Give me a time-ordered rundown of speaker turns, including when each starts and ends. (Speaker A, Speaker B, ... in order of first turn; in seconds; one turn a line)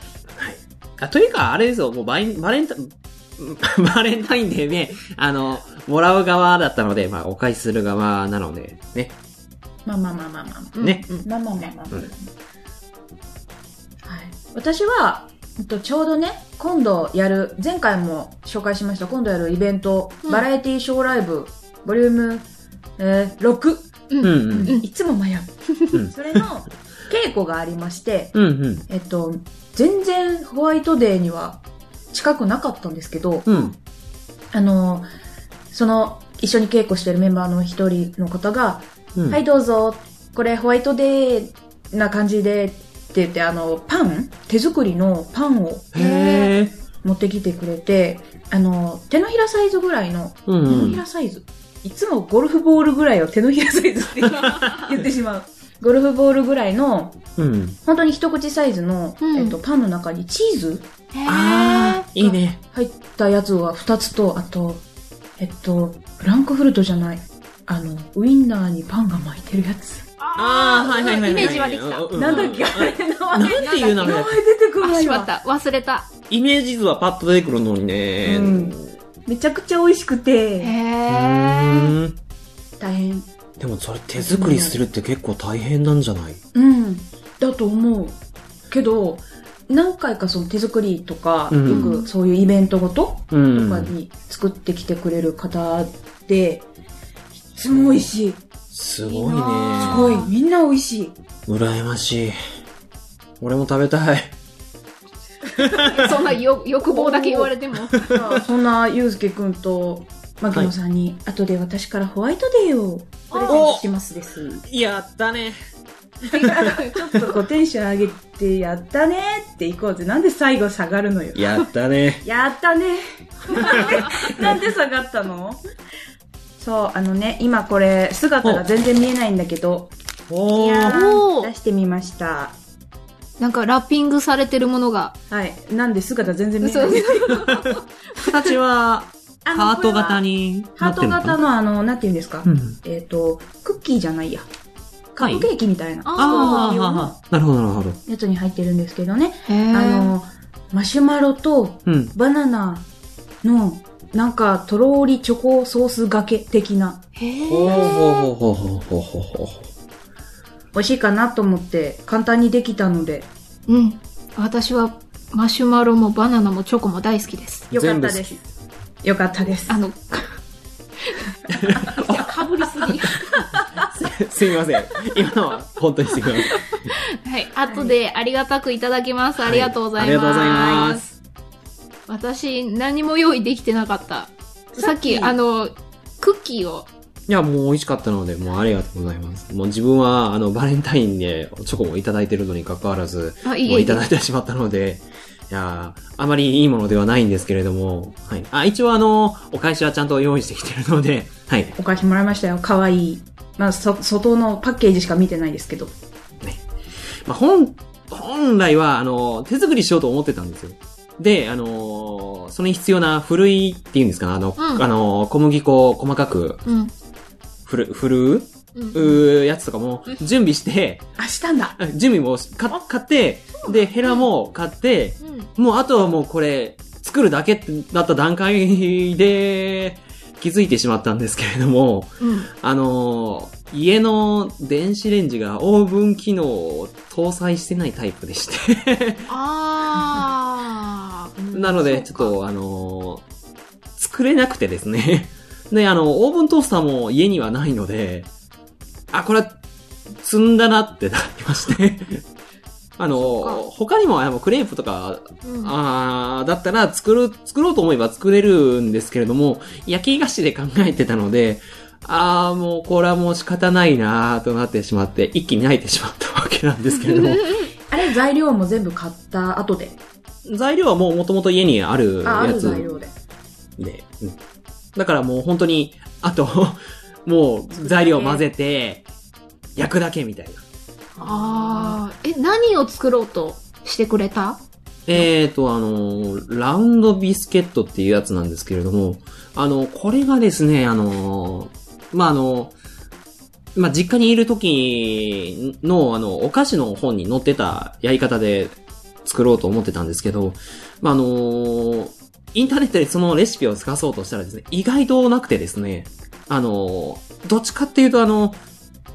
Speaker A: 0.3-9.2
Speaker B: 9.8-12.3
Speaker C: 10.8-11.3
Speaker A: 10.8-11.0
Speaker B: 14.1-28.4
Speaker C: 24.1-24.8
Speaker A: 24.2-24.8
Speaker A: 28.3-28.9
Speaker B: 28.9-33.7
Speaker A: 33.5-33.7
Speaker B: 34.5-35.1
Speaker B: 35.7-45.9
Speaker A: 39.1-39.4
Speaker A: 45.9-46.7
Speaker C: 45.9-46.5
Speaker B: 47.0-57.2
Speaker A: 50.5-51.0
Speaker C: 50.7-51.0
Speaker A: 57.4-57.8
Speaker B: 57.8-60.9
Speaker C: 59.2-59.6
Speaker C: 61.1-62.3
Speaker A: 61.2-62.6
Speaker B: 62.7-64.8
Speaker B: 65.4-70.0
Speaker C: 70.2-72.4
Speaker A: 70.3-74.4
Speaker B: 71.3-71.6
Speaker B: 72.1-75.3
Speaker C: 73.6-74.2
Speaker C: 74.8-76.1
Speaker A: 76.3-78.9
Speaker B: 78.2-80.7
Speaker C: 80.6-82.0
Speaker A: 81.1-82.2
Speaker B: 82.8-83.3
Speaker A: 83.6-86.4
Speaker B: 84.2-84.8
Speaker B: 86.5-88.2
Speaker B: 88.7-96.7
Speaker A: 91.5-91.9
Speaker C: 91.7-92.1
Speaker A: 93.3-93.9
Speaker B: 97.5-98.4
Speaker A: 98.7-100.2
Speaker C: 99.0-100.3
Speaker B: 99.8-101.2
Speaker A: 101.5-102.3
Speaker A: 103.4-104.3
Speaker A: 105.5-106.3
Speaker B: 105.7-106.0
Speaker C: 105.8-108.2
Speaker B: 106.8-114.6
Speaker A: 107.8-108.2
Speaker C: 113.3-113.7
Speaker A: 113.5-113.9
Speaker A: 114.6-115.6
Speaker B: 116.2-121.6
Speaker C: 116.3-117.3
Speaker A: 121.3-122.2
Speaker B: 122.2-125.6
Speaker A: 123.6-124.5
Speaker C: 123.6-124.1
Speaker B: 126.6-129.9
Speaker A: 130.3-131.1
Speaker B: 130.5-132.6
Speaker C: 130.8-131.5
Speaker C: 133.4-135.2
Speaker B: 135.3-137.5
Speaker C: 136.6-138.6
Speaker A: 137.4-141.4
Speaker B: 139.4-140.2
Speaker B: 140.8-144.5
Speaker A: 142.4-142.8
Speaker B: 145.1-147.1
Speaker A: 145.2-145.5
Speaker C: 146.1-147.1
Speaker A: 146.2-148.0
Speaker B: 148.1-152.9
Speaker C: 149.5-150.1
Speaker A: 151.8-152.1
Speaker B: 153.4-157.0
Speaker C: 157.2-158.3
Speaker A: 157.4-159.7
Speaker B: 160.7-163.3
Speaker C: 163.7-167.7
Speaker A: 167.7-168.4
Speaker B: 167.7-168.4
Speaker B: 169.0-169.8
Speaker C: 169.7-170.3
Speaker C: 171.1-173.3
Speaker A: 171.5-176.9
Speaker C: 176.6-181.1
Speaker B: 177.7-177.9
Speaker A: 179.4-181.0
Speaker C: 182.1-186.9
Speaker B: 184.7-185.3
Speaker A: 187.3-201.7
Speaker C: 193.4-194.0
Speaker B: 201.8-205.9
Speaker A: 207.2-216.6
Speaker C: 214.6-214.8
Speaker C: 216.7-216.9
Speaker A: 217.7-221.1
Speaker C: 218.7-219.2
Speaker B: 221.2-221.8
Speaker A: 221.8-239.3
Speaker C: 223.6-224.2
Speaker C: 225.2-225.5
Speaker C: 232.2-232.5
Speaker C: 239.3-242.3
Speaker A: 241.5-243.2
Speaker A: 244.0-248.3
Speaker A: 249.1-249.6
Speaker A: 250.2-252.2
Speaker A: 253.0-267.6
Speaker C: 253.1-253.6
Speaker C: 255.4-255.7
Speaker C: 267.0-267.7
Speaker B: 267.9-270.0
Speaker A: 270.4-272.9
Speaker B: 272.2-273.1
Speaker A: 273.8-274.4
Speaker A: 274.9-279.1
Speaker B: 277.7-278.4
Speaker A: 279.8-280.6
Speaker B: 281.1-282.0
Speaker C: 281.2-284.6
Speaker A: 285.1-292.7
Speaker A: 293.7-308.6